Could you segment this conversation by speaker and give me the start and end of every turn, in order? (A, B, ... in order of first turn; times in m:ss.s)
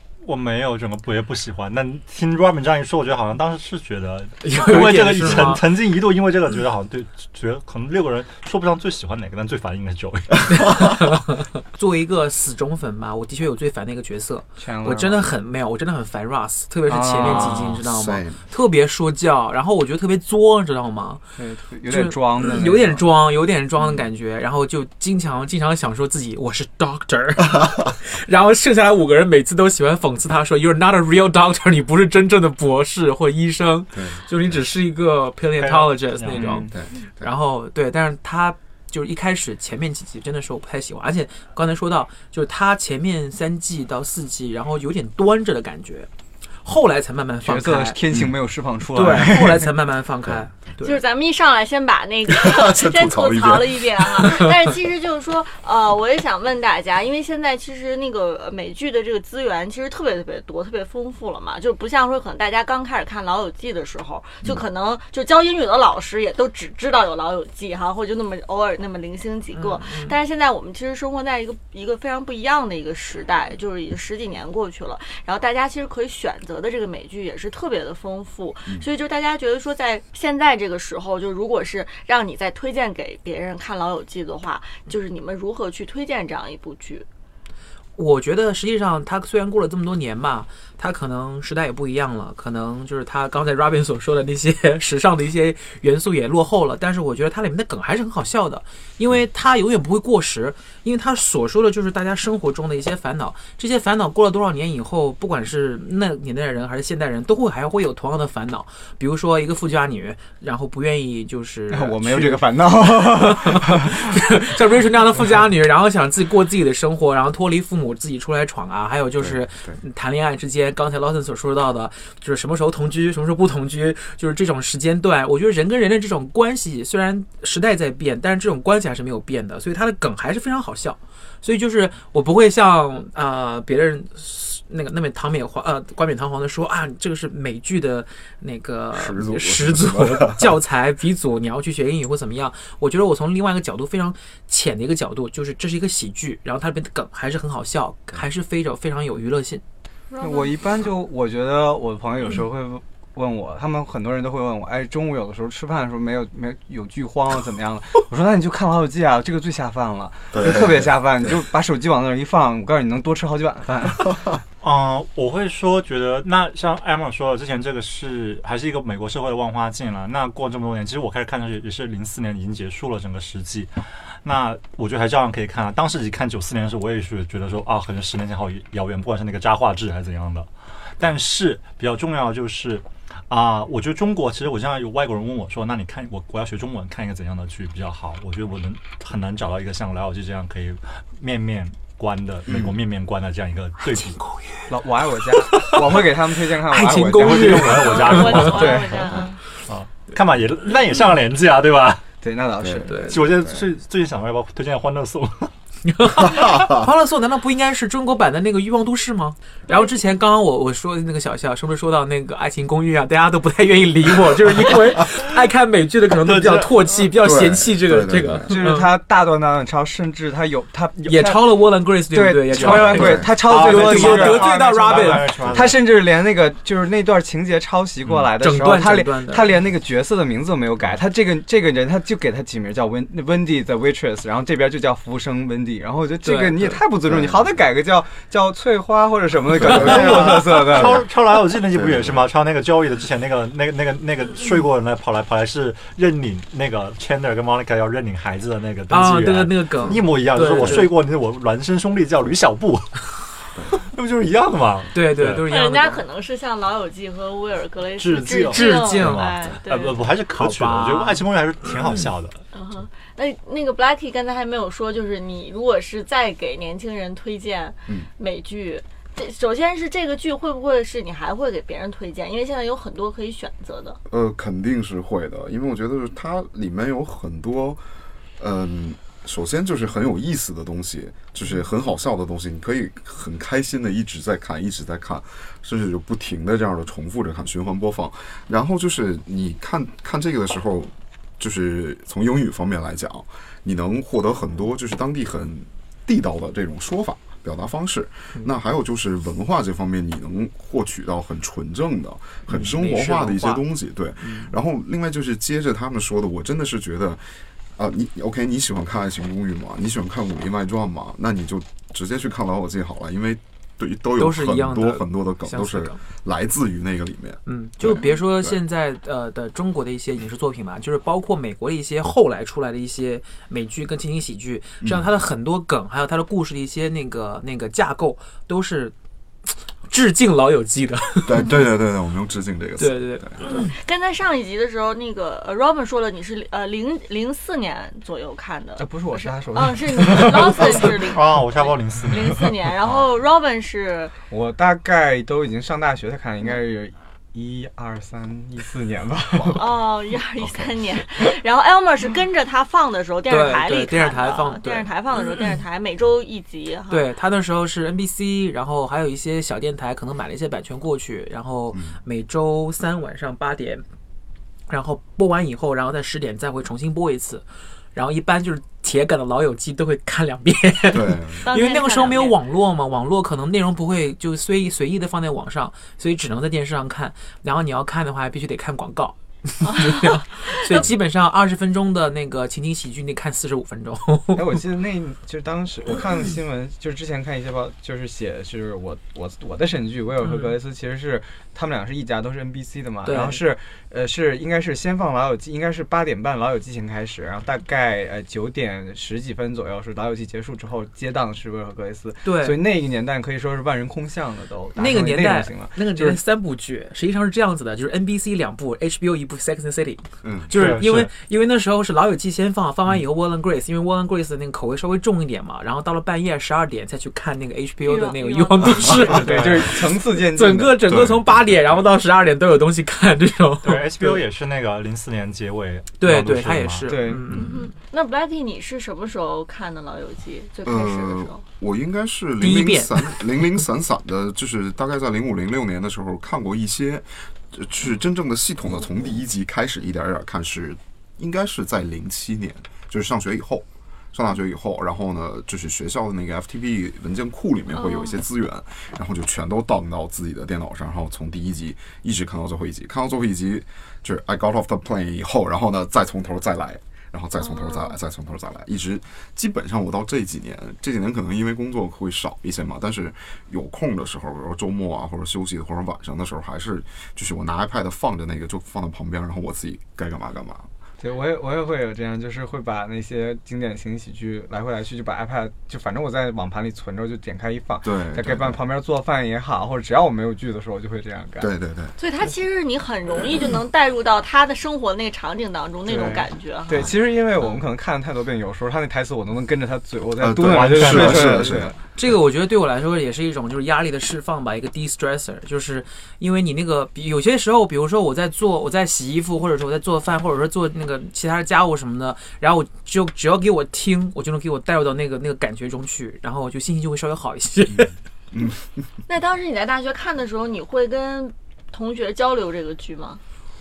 0:00.2-0:11.1 A
0:04.4-0:05.6 B
0:10.6-0:11.1 B
0:11.7-0:21.2 B
0:14.6-0:15.3 C
0:16.9-0:17.8 C
0:17.3-0:17.7 A
0:17.8-0:18.4 D
0:21.4-0:23.1 C
0:21.8-0:46.1 B
0:33.9-0:34.2 D
0:35.6-0:36.6 A
0:36.3-0:36.7 C
0:36.7-0:37.3 D
0:46.6-0:48.0 B
0:47.4-0:49.7 C
0:48.9-0:51.0 B
0:50.8-1:27.1 E
0:52.3-0:54.5 D
1:09.5-1:10.1 B
1:28.0-1:52.4 B
1:51.7-1:54.1 C
1:53.0-2:29.6 B
1:59.2-1:59.8 D
2:18.9-2:20.6 D
2:30.1-2:30.7 E
2:30.2-2:44.2 C
2:40.3-2:40.9 D
2:44.6-3:14.2 A
3:12.5-3:12.8 D
3:13.9-3:14.7 B
3:14.7-3:19.1 C
3:15.3-3:16.0 B
3:16.6-3:18.6 B
3:17.1-3:22.1 A
3:17.8-3:19.4 E
3:22.2-3:23.4 C
3:23.0-3:25.5 A
3:25.8-3:38.9 B
3:36.2-3:36.8 A
3:37.2-3:38.6 D
3:38.5-4:01.0 C
3:41.0-3:45.4 B
3:42.6-3:43.4 D
3:42.6-3:45.8 A
3:48.4-3:49.5 B
3:56.2-3:56.8 B
3:57.1-3:57.4 D
3:59.6-4:00.3 D
3:59.6-3:59.9 B
3:59.7-4:13.1 A
4:01.7-4:02.2 D
4:08.9-4:10.9 B
4:09.8-4:10.8 D
4:13.7-4:15.4 A
4:14.9-4:16.0 B
4:15.4-4:20.1 E
4:18.0-4:22.4 A
4:18.5-4:19.3 B
4:20.3-4:21.2 B
4:22.5-4:34.0 E
4:34.1-4:37.8 D
4:38.4-5:07.2 D
5:02.5-5:03.6 B
5:04.2-5:04.5 B
5:07.8-5:18.6 D
5:14.2-5:16.0 B
5:17.4-5:28.9 B
5:24.8-5:25.1 D
5:29.9-5:31.5 B
5:31.2-5:33.4 D
5:32.8-5:33.4 B
5:33.5-5:44.1 E
5:38.8-5:41.0 C
5:40.8-5:42.5 A
5:44.3-5:49.7 C
5:49.6-5:57.1 E
5:50.4-5:50.8 D
5:53.3-5:54.9 B
5:56.9-6:03.8 B
6:01.7-6:02.0 D
6:04.7-6:24.4 B
6:10.9-6:11.5 D
6:11.4-6:12.4 E
6:24.3-6:46.2 C
6:33.0-6:33.4 B
6:42.2-6:42.6 B
6:44.8-7:03.9 B
6:50.2-6:50.5 D
6:50.5-6:51.1 A
6:57.8-6:59.1 E
6:59.0-7:00.9 C
6:59.3-6:59.6 A
7:00.9-7:01.6 D
7:03.6-7:06.9 A
7:06.0-7:07.7 B
7:06.8-7:07.4 C
7:07.3-7:11.4 E
7:10.6-7:50.7 D
7:12.4-7:13.2 B
7:27.7-7:28.2 E
7:37.4-7:37.9 E
7:51.0-8:01.5 C
7:57.8-7:58.6 D
8:01.4-8:01.9 D
8:02.0-8:06.9 E
8:05.8-8:11.8 C
8:10.2-8:11.7 D
8:10.4-8:11.6 A
8:11.9-8:27.9 B
8:27.8-8:28.6 D
8:29.1-8:33.2 E